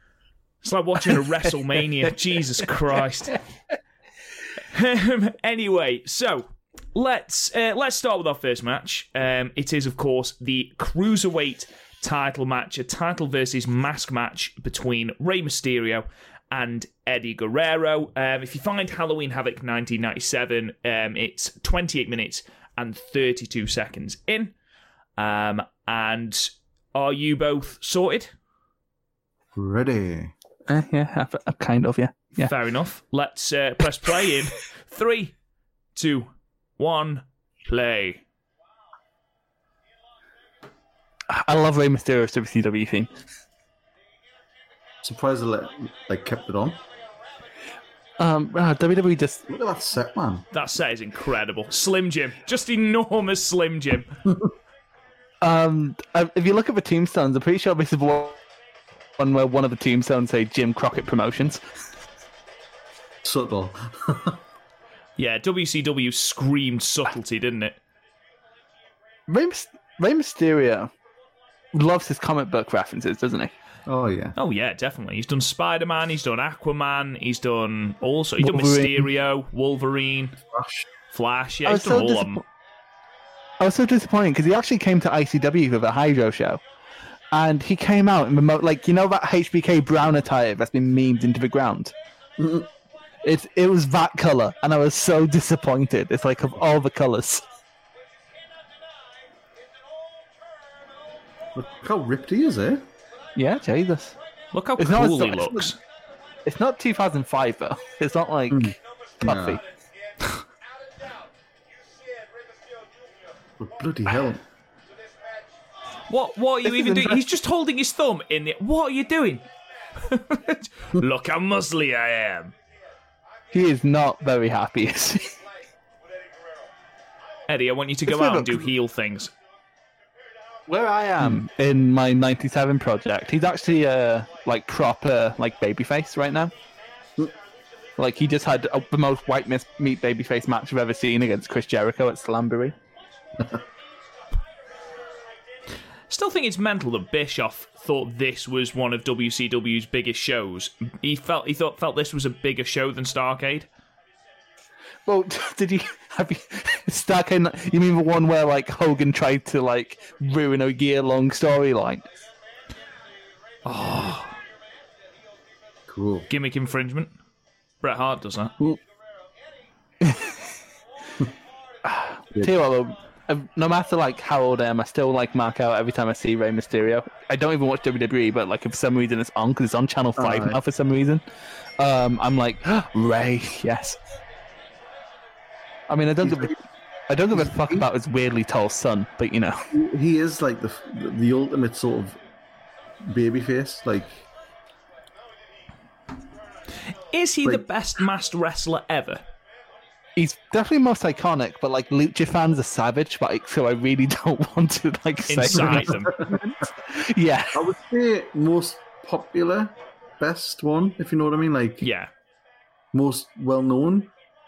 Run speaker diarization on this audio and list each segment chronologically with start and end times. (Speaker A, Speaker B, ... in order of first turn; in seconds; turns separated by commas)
Speaker A: 0.6-3.4, Speaker A: 4.6-24.5, Speaker A: 25.2-28.3, Speaker B: 29.5-30.3, Speaker C: 30.7-32.5, Speaker A: 32.4-35.3, Speaker A: 35.9-38.2, Speaker C: 41.3-43.1, Speaker B: 45.0-46.8, Speaker C: 48.2-49.4, Speaker B: 49.5-50.5, Speaker A: 50.5-54.1, Speaker C: 55.4-58.4, Speaker C: 59.2-61.6, Speaker B: 63.2-64.4, Speaker A: 65.2-67.8, Speaker C: 69.3-70.9, Speaker C: 71.7-73.5, Speaker B: 73.9-74.3, Speaker A: 74.3-80.4, Speaker C: 78.4-79.0, Speaker B: 80.5-80.9, Speaker A: 81.1-82.4, Speaker C: 81.6-82.4, Speaker C: 83.6-86.6, Speaker C: 87.3-91.9, Speaker B: 92.4-92.7, Speaker C: 93.2-97.4, Speaker B: 101.5-102.8, Speaker C: 103.3-104.2, Speaker A: 104.5-105.8, Speaker C: 104.8-105.7, Speaker C: 106.4-109.6, Speaker B: 108.5-109.6, Speaker B: 113.6-114.4, Speaker A: 116.1-122.5, Speaker C: 116.6-117.2, Speaker C: 123.5-125.4, Speaker A: 127.5-129.3, Speaker C: 128.1-128.7, Speaker C: 130.7-136.5, Speaker C: 138.0-142.8, Speaker A: 146.1-153.7, Speaker C: 155.1-162.0, Speaker A: 163.6-164.3, Speaker B: 165.9-166.3, Speaker A: 166.3-167.1, Speaker A: 167.8-168.5, Speaker C: 170.0-170.5, Speaker C: 171.8-181.2, Speaker B: 180.2-180.6, Speaker C: 181.8-184.0, Speaker C: 185.9-186.6, Speaker B: 186.2-186.6, Speaker C: 187.1-189.7, Speaker B: 187.3-187.8, Speaker B: 189.7-192.2, Speaker B: 193.0-194.2, Speaker A: 197.1-199.2, Speaker C: 200.2-207.7, Speaker A: 205.3-206.2, Speaker B: 205.6-206.4, Speaker B: 207.5-211.9, Speaker A: 211.8-212.1, Speaker B: 212.9-214.1